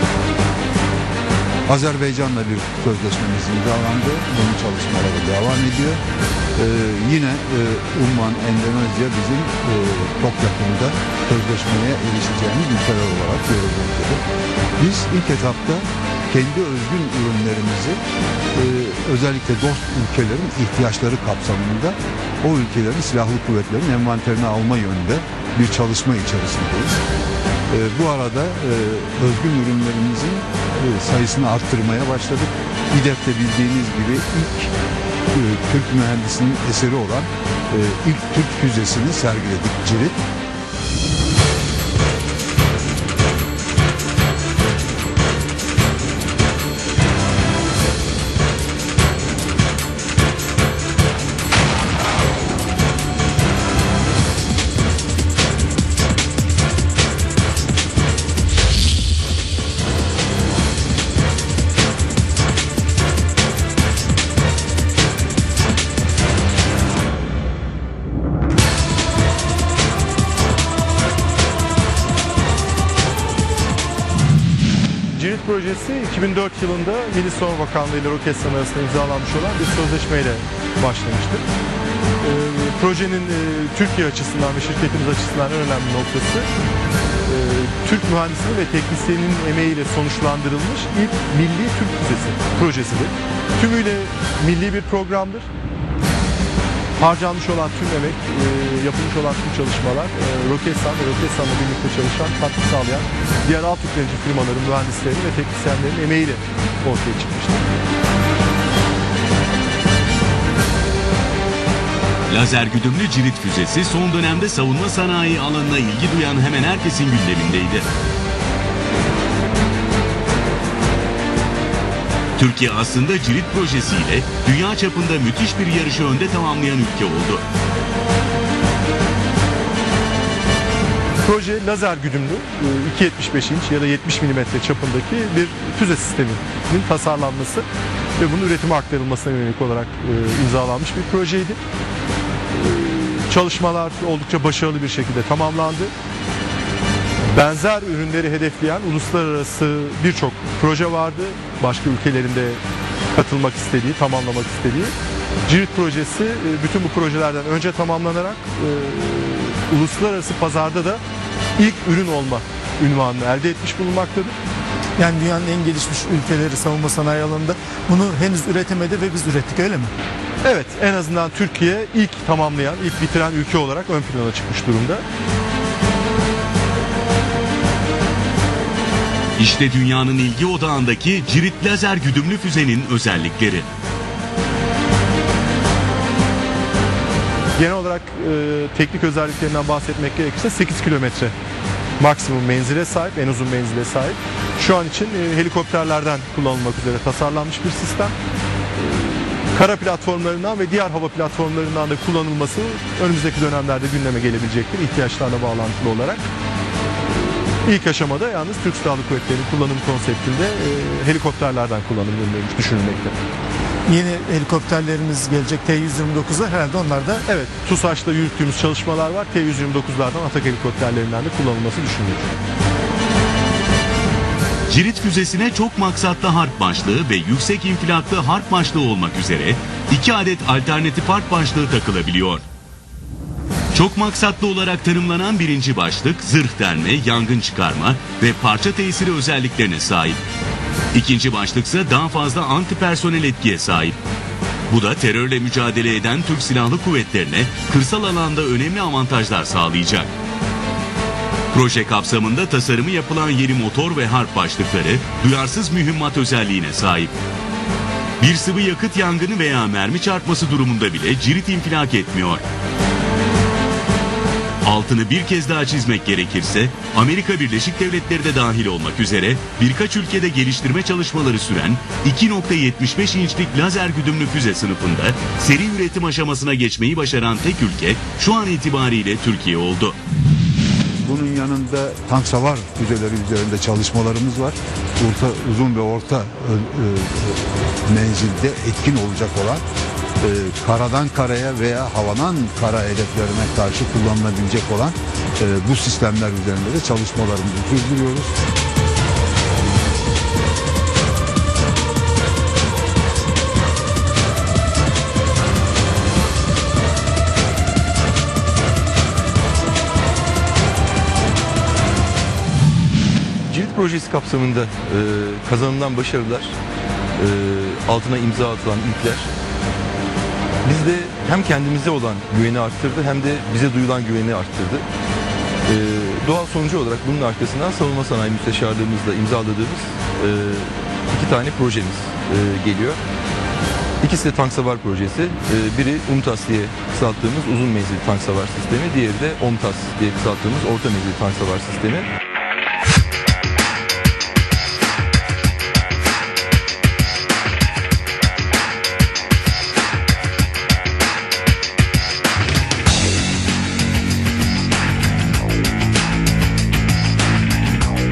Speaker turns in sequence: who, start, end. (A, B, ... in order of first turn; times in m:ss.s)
0:01.7-0:06.0 A
0:06.6-0:14.2 A
0:14.8-0:18.0 A
0:18.5-0:27.0 A
0:27.7-0:34.7 A
0:35.3-0:40.2 A
1:15.1-1:21.4 B
1:22.2-1:26.5 B
1:27.2-1:35.5 B
1:37.0-1:47.6 B
1:52.3-1:57.9 C
2:02.4-2:07.4 C
2:11.2-2:17.6 B
2:18.2-2:21.6 B
2:22.5-2:25.9 B
2:27.3-2:32.6 B
2:33.1-2:34.9 B
2:35.4-2:41.0 B
2:41.6-2:44.3 B
2:45.0-2:49.9 D
2:50.4-2:55.0 B
2:59.4-3:03.7 C
3:07.6-3:11.3 B
3:12.0-3:18.1 B
3:18.8-3:26.2 B
3:27.1-3:33.2 B
3:33.9-3:37.2 D
3:37.3-3:42.3 B
3:44.7-3:52.4 C
3:53.7-4:00.2 C
4:00.9-4:04.0 C
4:04.7-4:10.1 C
4:11.5-4:17.2 C
4:18.2-4:22.4 C
4:24.6-4:40.0 C
4:41.0-4:49.6 A
4:50.2-4:58.4 A
5:13.5-5:16.6 E
5:17.2-5:19.3 E
5:20.6-5:24.8 E
5:25.7-5:33.0 E
5:34.0-5:42.1 E